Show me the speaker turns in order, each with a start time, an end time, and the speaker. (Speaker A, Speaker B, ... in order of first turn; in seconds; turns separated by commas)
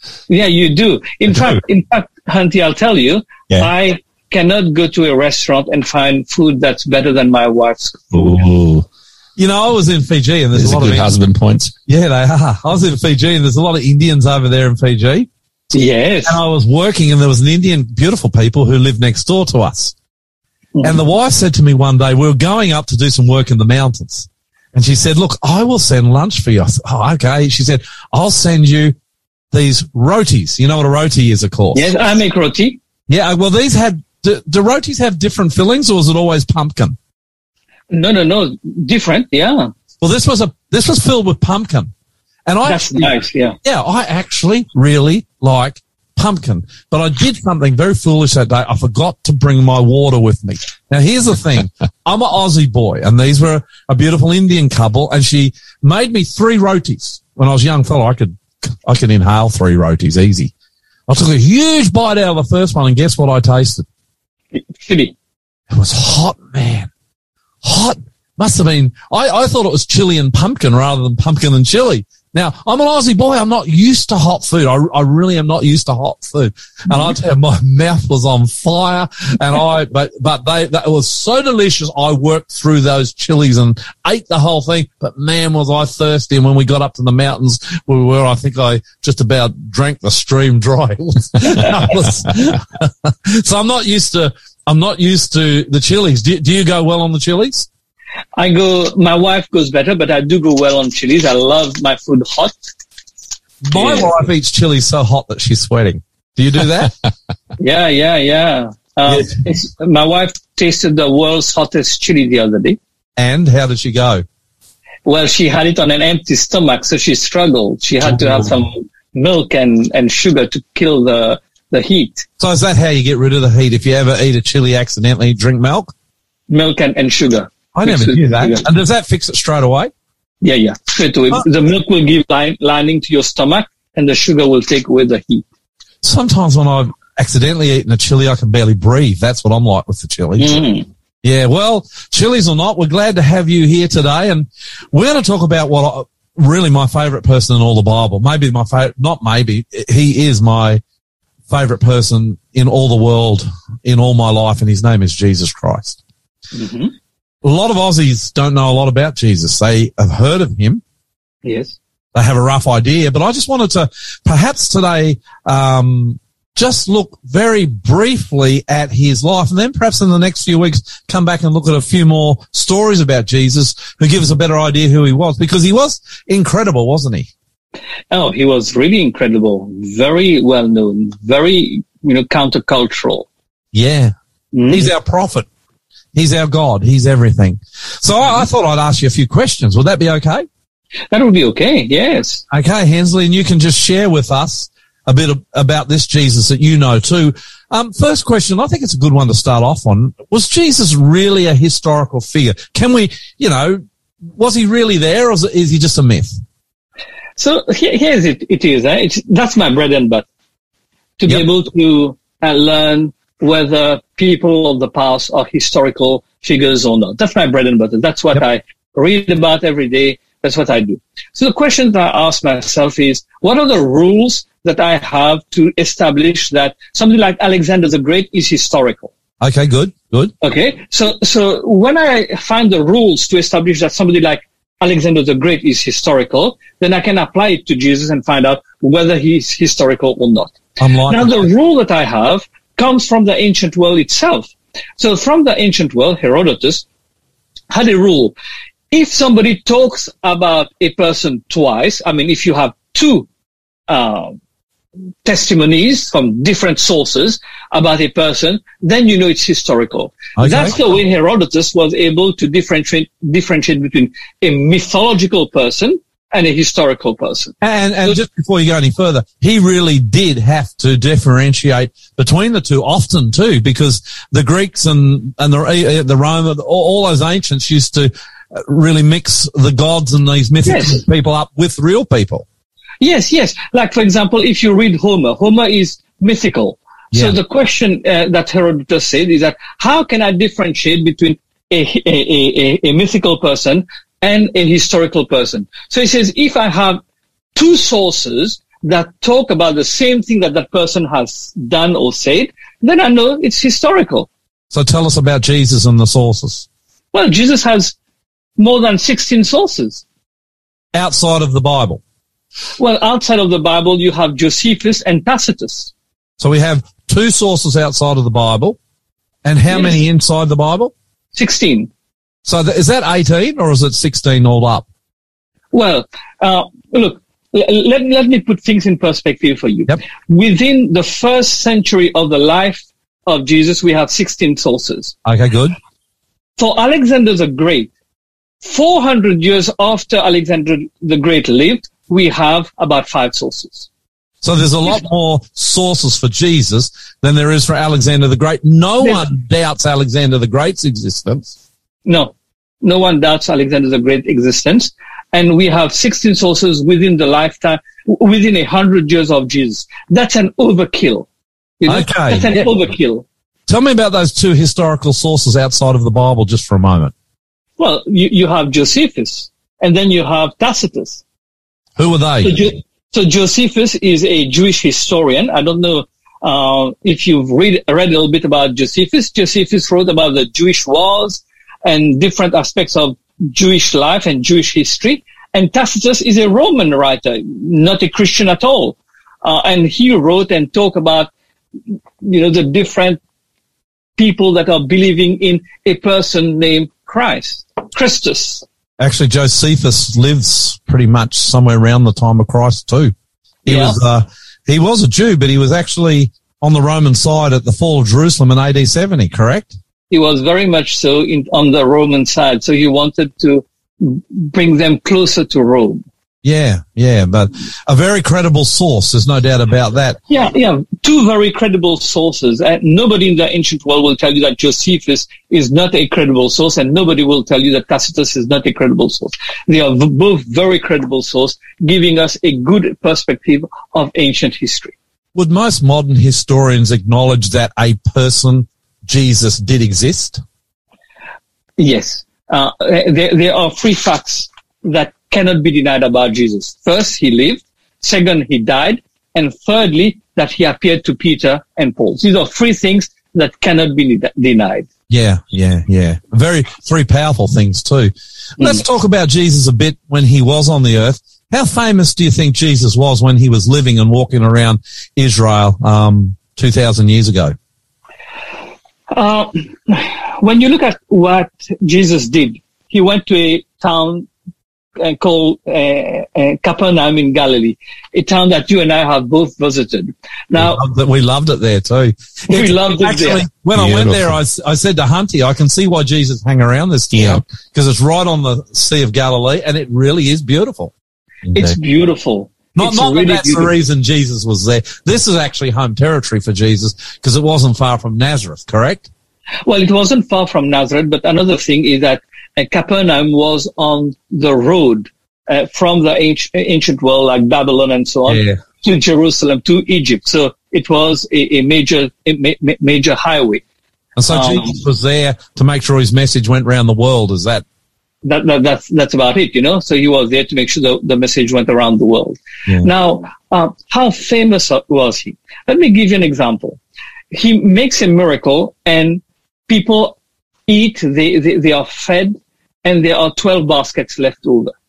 Speaker A: 0.3-8.4, Speaker B: 1.3-1.6, Speaker B: 8.1-8.8, Speaker C: 9.4-11.1, Speaker B: 10.5-11.7, Speaker C: 11.9-15.3, Speaker A: 15.7-16.4, Speaker C: 16.2-19.9, Speaker C: 20.8-28.9, Speaker C: 29.5-31.9, Speaker A: 31.7-32.8, Speaker C: 33.1-37.0, Speaker A: 37.9-39.7, Speaker C: 40.0-41.9, Speaker C: 42.5-60.5, Speaker A: 42.6-43.5, Speaker C: 61.1-63.8, Speaker A: 64.5-65.1, Speaker C: 65.7-66.9, Speaker C: 67.6-97.7, Speaker A: 91.5-91.7, Speaker A: 98.3-102.5, Speaker C: 103.6-106.9, Speaker A: 103.7-104.1, Speaker A: 107.6-112.8, Speaker C: 109.0-109.4, Speaker C: 113.2-114.2, Speaker A: 115.0-122.2, Speaker C: 118.0-118.5, Speaker C: 122.4-125.9, Speaker A: 126.5-128.6, Speaker C: 127.7-129.9, Speaker A: 130.4-135.4, Speaker C: 136.0-140.6, Speaker A: 140.4-140.9, Speaker C: 141.2-150.8, Speaker C: 151.5-156.0, Speaker A: 156.5-156.9, Speaker C: 157.4-160.8, Speaker A: 161.4-161.8, Speaker C: 162.1-177.3, Speaker A: 178.1-183.3, Speaker C: 183.7-184.1, Speaker A: 184.5-184.9, Speaker C: 184.7-185.5, Speaker C: 186.1-190.4, Speaker A: 191.1-192.4, Speaker C: 192.5-203.8, Speaker C: 204.3-206.4, Speaker A: 207.3-210.2, Speaker A: 211.2-229.1, Speaker C: 229.4-230.3, Speaker A: 230.4-246.8, Speaker C: 240.8-241.5, Speaker A: 247.7-248.3, Speaker A: 248.9-253.3, Speaker A: 253.9-254.4, Speaker A: 255.2-267.5, Speaker C: 260.4-260.8, Speaker C: 267.6-282.4, Speaker A: 280.6-281.0, Speaker A: 283.0-297.0, Speaker C: 287.1-287.4, Speaker A: 297.5-304.3, Speaker C: 304.7-306.7, Speaker A: 307.1-307.9, Speaker A: 308.6-310.0, Speaker C: 310.9-312.0, Speaker A: 312.8-315.9, Speaker C: 316.4-318.8, Speaker C: 319.4-320.9, Speaker A: 319.7-320.0, Speaker A: 321.3-321.9, Speaker C: 322.4-324.8, Speaker A: 325.7-335.1, Speaker C: 335.2-335.7, Speaker A: 336.6-337.9, Speaker A: 338.6-343.9, Speaker C: 344.4-351.6, Speaker A: 352.1-361.3, Speaker A: 361.8-363.2, Speaker C: 361.9-362.7, Speaker C: 363.7-367.1, Speaker A: 367.8-371.2, Speaker C: 372.0-372.6, Speaker A: 372.4-391.3, Speaker A: 392.2-393.2, Speaker A: 394.2-398.6, Speaker C: 399.0-403.1, Speaker C: 403.6-409.7, Speaker A: 403.7-404.0, Speaker A: 410.1-416.0, Speaker C: 416.4-420.2, Speaker A: 420.3-434.9, Speaker C: 435.3-440.4, Speaker A: 441.8-454.9, Speaker C: 455.1-467.5, Speaker A: 469.1-474.3, Speaker A: 475.0-480.8, Speaker C: 480.6-490.9, Speaker A: 482.5-483.4, Speaker B: 483.7-484.4, Speaker B: 487.1-487.4, Speaker B: 491.5-491.8, Speaker A: 491.5-493.7, Speaker C: 492.7-499.1, Speaker A: 499.6-513.6, Speaker C: 508.3-508.6, Speaker C: 514.2-517.6, Speaker A: 514.3-514.8, Speaker A: 518.2-526.8, Speaker A: 527.3-534.7